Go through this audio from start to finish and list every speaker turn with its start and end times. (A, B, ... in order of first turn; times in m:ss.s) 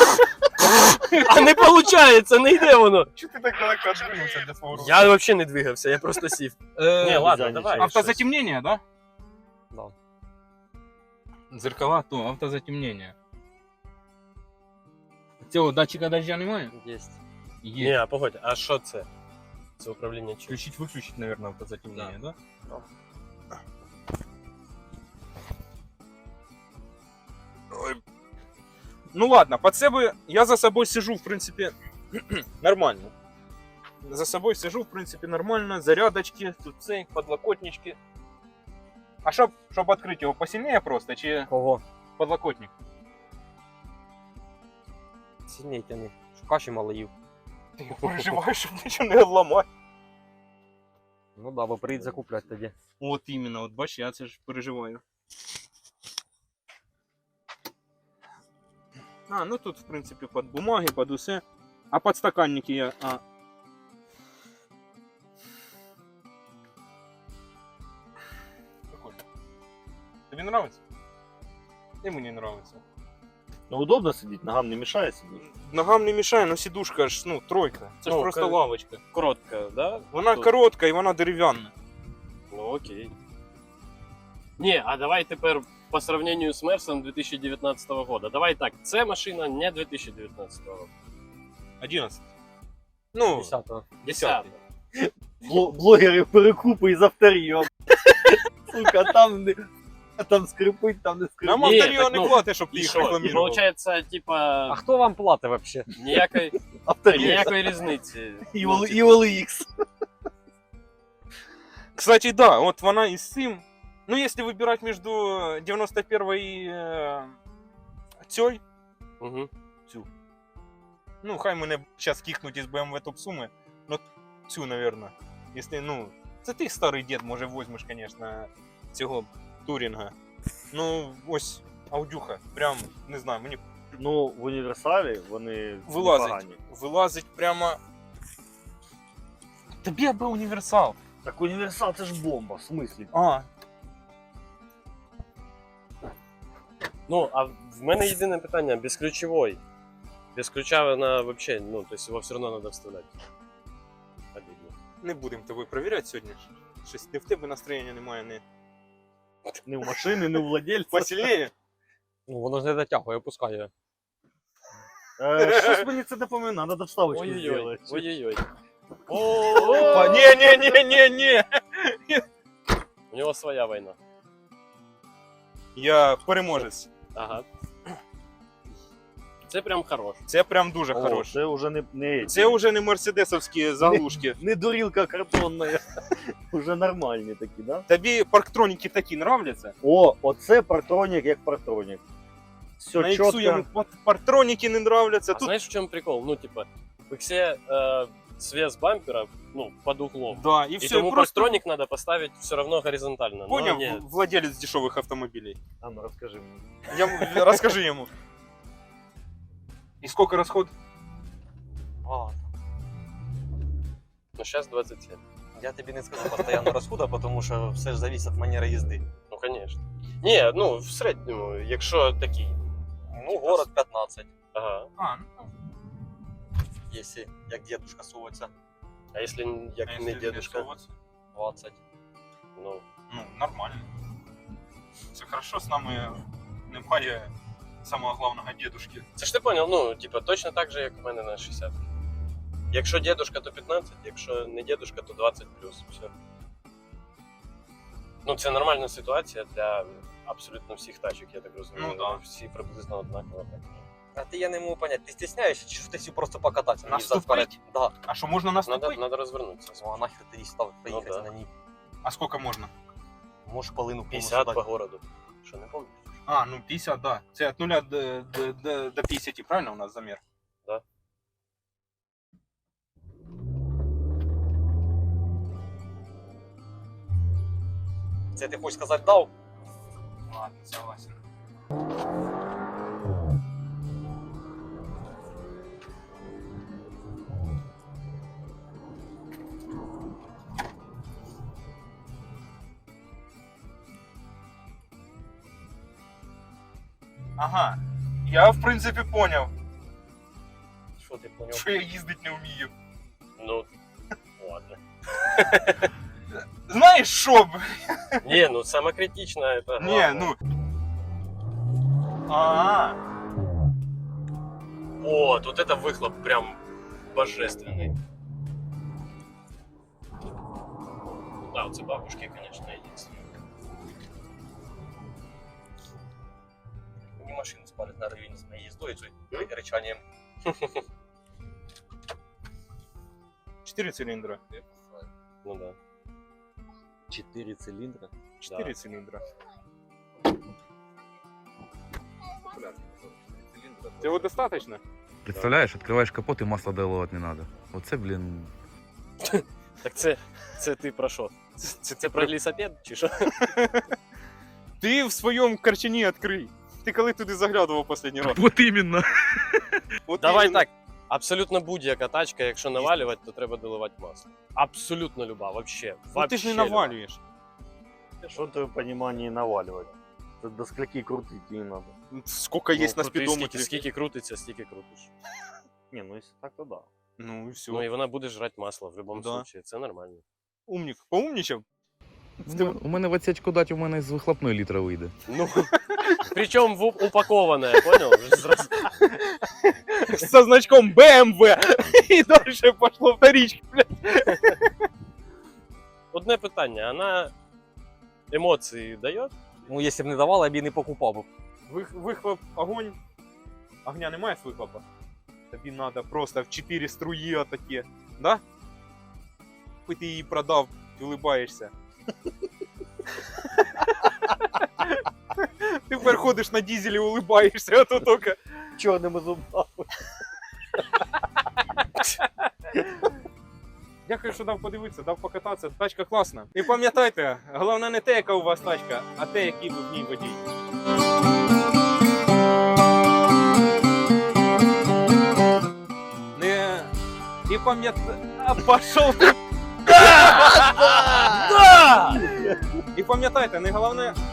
0:00.6-0:03.1 A
0:01.0-0:01.3 B
0:03.1-0:05.2 B
0:04.7-0:08.2 A
0:06.8-0:08.8 B
0:07.1-0:08.0 C
0:11.5-0:13.1 B
0:15.4-0:16.7 B
0:16.7-0:17.2 D
0:17.6-0:18.0 B
0:17.8-0:19.1 A
0:19.8-0:20.6 A
0:20.5-0:22.4 B
0:29.1-0:33.1 B
0:34.0-0:38.0 B
0:39.2-0:41.5 B
0:41.5-0:41.8 D
0:42.2-0:42.7 B
0:45.5-0:47.1 D
0:47.8-0:49.7 B
0:51.4-0:52.7 D
0:53.0-0:55.0 B
0:59.3-1:03.2 B
1:08.9-1:09.2 B
1:10.3-1:10.8 B
1:12.0-1:12.8 B
1:13.7-1:15.4 C
1:15.4-1:19.0 B
1:18.0-1:18.6 A
1:19.1-1:20.6 A
1:20.1-1:21.7 B
1:22.5-1:23.1 A
1:24.6-1:30.9 A
1:31.8-1:32.2 B
1:33.1-1:34.5 B
1:33.3-1:33.8 D
1:34.1-1:34.5 A
1:35.0-1:39.6 C
1:40.2-1:42.0 C
1:41.4-1:43.6 B
1:41.6-1:44.8 A
1:44.7-1:45.9 D
1:45.9-1:46.6 A
1:46.8-1:47.8 C
1:47.1-1:49.3 A
1:48.5-1:49.6 C
1:52.0-1:57.4 B
1:58.2-1:58.6 B
1:59.2-1:59.5 A
2:01.2-2:10.1 B
2:10.7-2:13.6 B
2:14.0-2:16.6 C
2:15.9-2:17.8 B
2:19.8-2:21.0 B
2:21.2-2:23.1 C
2:23.1-2:23.5 B
2:27.1-2:29.6 A
2:30.3-2:33.1 A
2:34.3-2:34.7 A
2:35.0-2:38.4 B
2:39.6-2:41.3 C
2:40.9-2:41.5 B
2:42.3-2:43.7 D
2:45.2-2:48.1 C
2:45.4-2:45.9 B
2:47.1-2:48.4 A
2:49.1-2:50.2 A
2:49.6-2:52.2 B
2:53.1-2:54.0 A
2:55.8-2:56.9 B
2:57.1-2:57.4 A
2:59.5-3:00.2 A
3:00.3-3:01.4 B
3:00.9-3:02.5 C
3:02.3-3:04.4 B
3:03.8-3:07.8 C
3:07.9-3:09.7 B
3:09.8-3:12.0 C
3:12.8-3:13.7 C
3:13.0-3:15.5 B
3:15.3-3:24.0 A
3:20.3-3:21.6 B
3:23.5-3:25.6 B
3:25.8-3:26.7 C
3:26.9-3:28.1 B
3:30.0-3:30.7 B
3:32.0-3:32.4 D
3:34.4-3:35.2 A
3:35.6-3:39.1 D
3:39.3-3:42.6 A
3:43.1-3:44.3 D
3:44.5-3:44.9 A
3:45.0-3:45.4 B
3:46.9-3:48.5 D
3:49.1-3:50.7 A
3:49.9-3:50.9 B
3:51.3-3:51.8 D
3:52.6-3:52.8 A
3:53.1-3:53.9 B
3:55.1-3:57.3 B
3:57.8-3:59.1 B
3:59.2-4:01.8 A
4:02.7-4:06.1 A
4:08.2-4:13.9 A
4:11.8-4:12.2 B
4:14.2-4:17.9 D
4:16.8-4:19.0 B
4:18.6-4:20.0 A
4:19.8-4:21.5 D
4:20.9-4:21.3 A
4:22.0-4:22.7 B
4:23.4-4:24.6 D
4:24.1-4:26.0 A
4:26.3-4:30.2 B
4:38.4-4:39.3 D
4:40.3-4:41.2 B
4:57.4-4:59.5 B
5:01.0-5:01.7 D
5:01.5-5:02.7 B
5:03.4-5:03.7 A
5:04.4-5:04.8 A
5:06.6-5:08.4 B
5:08.2-5:10.3 A
5:09.8-5:10.4 B
5:12.3-5:13.0 B
5:15.0-5:16.6 A
5:17.1-5:17.9 A
5:21.4-5:23.2 A
5:27.2-5:30.0 D
5:30.4-5:30.8 A
5:33.6-5:34.6 B
5:35.4-5:35.8 A
5:37.1-5:38.1 C
5:38.4-5:39.2 B
5:38.4-5:38.7 A
5:42.5-5:44.8 B
5:45.2-5:48.5 E
5:45.3-5:45.6 A
5:49.2-5:51.3 A
5:51.6-5:52.3 B
5:52.0-5:53.4 A
5:53.4-5:53.9 B
5:54.8-5:58.4 B
5:58.3-5:59.8 E
6:00.1-6:00.6 B
6:00.2-6:07.0 A
6:02.8-6:03.1 B
6:06.1-6:07.2 B
6:08.3-6:11.9 C
6:12.1-6:13.8 B
6:12.7-6:15.1 A
6:15.9-6:16.9 C
6:17.2-6:17.8 B
6:17.7-6:20.2 A
6:19.1-6:19.5 B
6:20.7-6:21.6 B
6:22.4-6:25.1 E
6:22.5-6:22.8 B
6:25.3-6:25.7 A
6:26.3-6:28.9 A
6:29.0-6:34.7 B
6:36.1-6:37.3 A
6:38.3-6:39.3 A
6:39.7-6:41.3 D
6:41.7-6:43.0 B
6:43.8-6:44.8 B
6:45.5-6:48.4 B
6:49.8-6:51.7 B
6:54.4-6:58.4 B
6:58.8-6:59.9 C
7:04.0-7:10.4 B
7:16.3-7:16.9 B
7:17.5-7:21.0 B
7:19.9-7:22.3 A
7:20.8-7:21.6 C
7:22.1-7:22.6 C
7:22.9-7:24.2 B